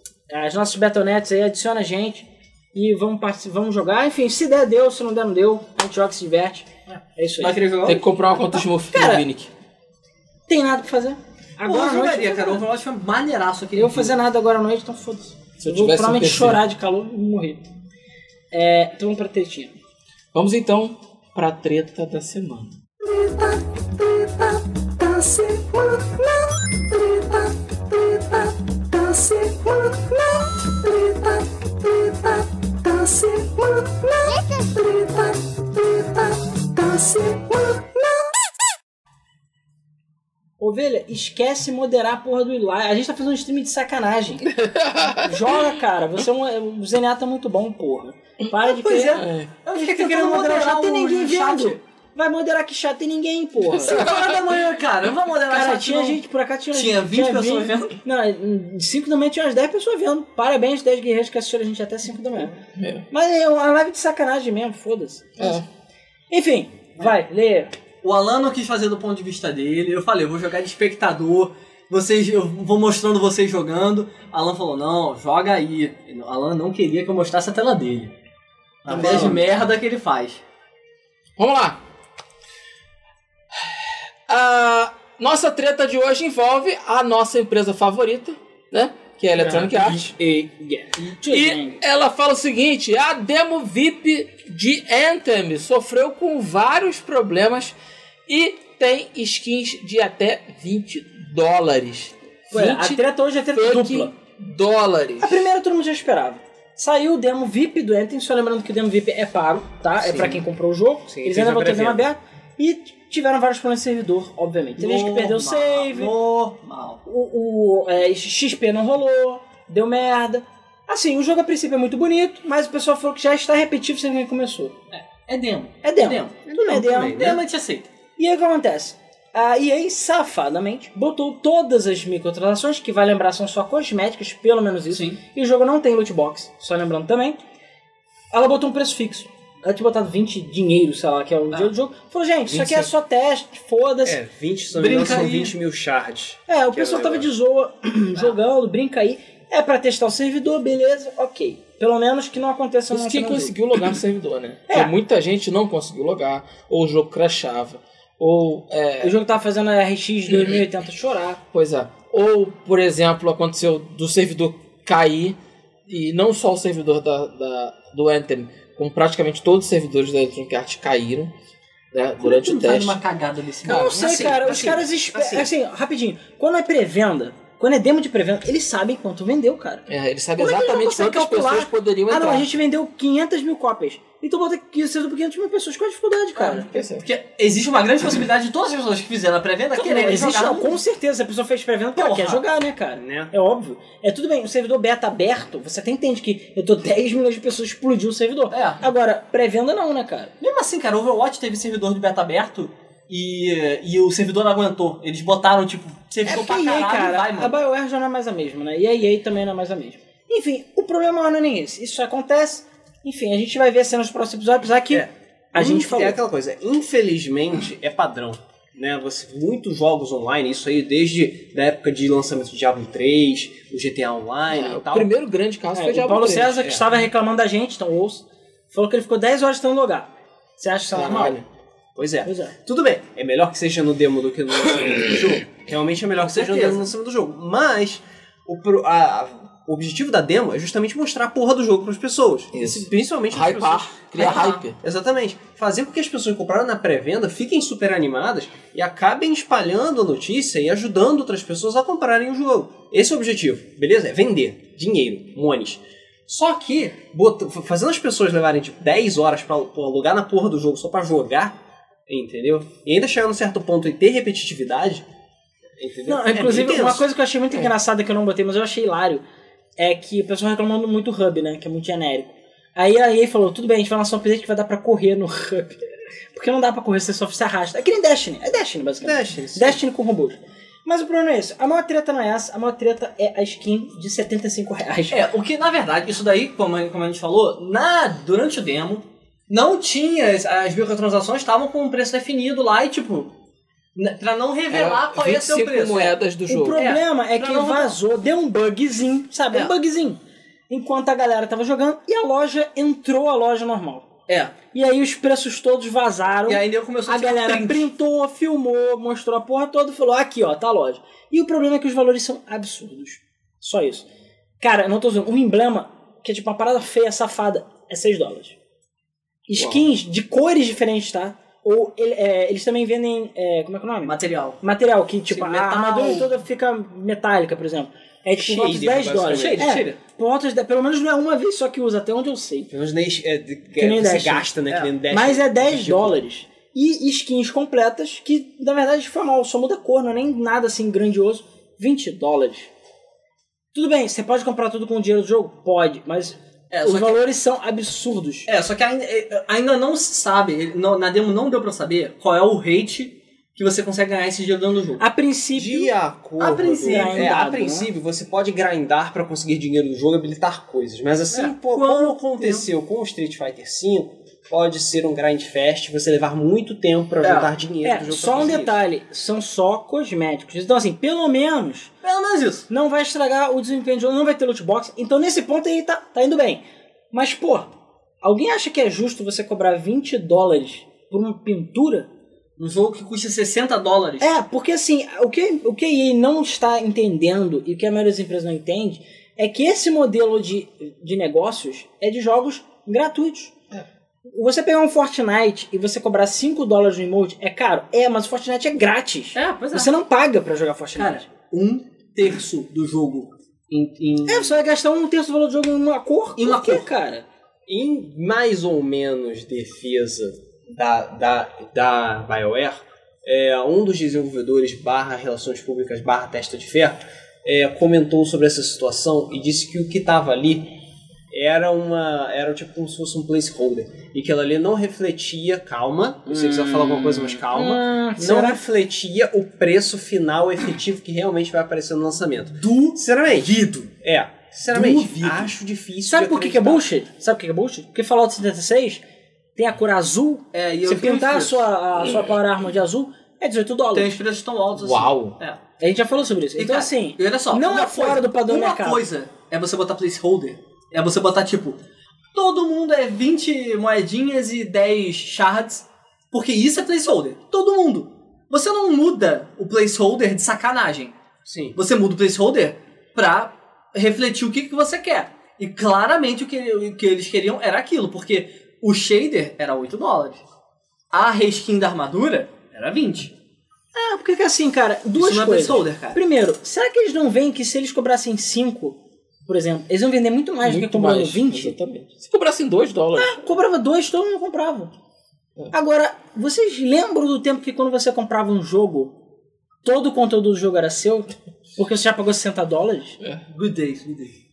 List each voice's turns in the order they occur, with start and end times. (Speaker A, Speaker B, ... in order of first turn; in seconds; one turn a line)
Speaker A: 0.3-7.6
Speaker B: 7.4-8.0
Speaker C: 7.8-9.5
Speaker A: 8.5-9.3
Speaker A: 10.5-12.6
Speaker B: 11.7-14.2
Speaker A: 13.8-17.7
Speaker C: 15.6-16.6
Speaker A: 18.5-19.8
Speaker C: 20.3-22.8
Speaker A: 23.0-38.3
Speaker A: 40.6-44.5
Speaker C: 44.5-45.6
Speaker A: 45.2-54.1
Speaker B: 48.7-51.8
Speaker C: 49.1-49.5
Speaker B: 53.8-56.2
Speaker C: 53.9-54.3
Speaker A: 55.5-62.6
Speaker B: 56.7-58.0
Speaker C: 62.8-63.0
Speaker A: 63.1-65.6
Speaker C: 65.4-65.6
Speaker A: 66.3-67.7
Speaker B: 68.0-78.1
Speaker B: 78.8-80.4
Speaker D: 78.9-79.4
Speaker A: 79.0-79.2
Speaker C: 81.4-81.8
Speaker C: 84.3-90.1
Speaker A: 89.4-91.8
Speaker C: 91.3-97.8
Speaker C: 98.3-103.0
Speaker A: 102.5-104.1
Speaker C: 103.5-105.4
Speaker A: 105.2-116.1
Speaker D: 111.1-112.1
Speaker B: 114.8-117.0
Speaker A: 117.0-124.8
Speaker B: 124.9-126.4
Speaker A: 125.8-127.4
Speaker D: 126.5-127.4
Speaker B: 127.0-127.9
Speaker A: 128.2-137.4
Speaker B: 134.9-135.2
Speaker A: 138.3-144.2
Speaker D: 142.5-142.9
Speaker D: 144.1-147.3
Speaker B: 144.8-145.6
Speaker A: 146.5-153.6
Speaker C: 152.9-159.2
Speaker A: 154.7-154.9
Speaker A: 159.0-161.4
Speaker C: 161.5-171.3
Speaker C: 171.9-173.0
Speaker B: 172.2-174.7
Speaker A: 173.7-179.8
Speaker D: 174.2-175.5
Speaker C: 179.9-182.5
Speaker A: 180.4-186.7
Speaker B: 186.4-190.8
Speaker C: 186.5-187.1
Speaker A: 189.8-200.3
Speaker B: 192.0-192.4
Speaker D: 193.0-193.3
Speaker B: 198.5-198.8
Speaker B: 200.4-207.6
Speaker A: 206.2-216.2
Speaker D: 214.9-225.1
Speaker C: 224.5-226.7
Speaker A: 225.7-231.4
Speaker D: 226.6-226.9
Speaker D: 231.0-231.4
Speaker C: 231.0-231.4
Speaker D: 232.0-255.8
Speaker A: 232.2-232.6
Speaker B: 236.2-236.8
Speaker C: 242.5-244.8
Speaker B: 244.2-244.6
Speaker B: 256.3-257.0
Speaker D: 257.0-261.6
Speaker D: 262.1-265.0
Speaker D: 265.8-267.1
Speaker A: 266.1-269.2
Speaker A: 269.8-275.8
Speaker A: 276.3-285.2
Speaker D: 279.0-279.8
Speaker B: 285.1-293.3
Speaker B: 293.9-296.2
Speaker C: 294.7-296.8
Speaker A: 296.5-304.1
Speaker B: 296.8-298.0
Speaker B: 304.3-304.5
Speaker A: 304.7-314.1
Speaker B: 306.5-307.9
Speaker A: 314.6-318.6
Speaker A: 319.5-332.7
Speaker B: 324.0-324.6
Speaker B: 325.3-326.3
Speaker D: 328.4-329.7
Speaker B: 329.3-330.0
Speaker D: 332.7-336.2
Speaker A: 333.8-334.5
Speaker A: 335.1-342.7
Speaker A: 343.7-348.5
Speaker B: 346.7-347.2
Speaker B: 348.5-355.0
Speaker A: 355.0-355.9
Speaker D: 355.6-368.8
Speaker B: 356.4-357.3
Speaker A: 356.8-357.9
Speaker B: 361.3-362.7
Speaker B: 367.2-367.5
Speaker A: 367.8-371.9
Speaker B: 372.0-372.7
Speaker A: 372.7-377.7
Speaker A: 378.2-382.1
Speaker B: 382.6-384.3
Speaker A: 384.2-393.6
Speaker A: 394.3-401.2
Speaker B: 399.4-399.9
Speaker B: 401.0-404.6
Speaker A: 404.3-407.2
Speaker B: 406.4-406.9
Speaker D: 407.7-420.8
Speaker D: 421.3-436.8
Speaker B: 426.3-427.3
Speaker A: 427.5-428.6
Speaker B: 432.6-433.0
Speaker B: 434.7-435.5
Speaker A: 436.1-439.0
Speaker A: 439.6-444.1
Speaker B: 440.5-441.6
Speaker B: 443.9-445.6
Speaker C: 444.8-445.4
Speaker A: 445.8-449.1
Speaker B: 446.6-451.8
Speaker B: 452.3-461.1
Speaker D: 461.5-461.8
Speaker B: 461.8-470.4
Speaker B: 471.1-473.3
Speaker A: 473.9-481.8
Speaker B: 475.2-476.2
Speaker C: 480.6-483.4
Speaker A: 483.2-484.9
Speaker A: 485.7-489.1
Speaker A: 489.8-493.2
Speaker B: 493.5-494.4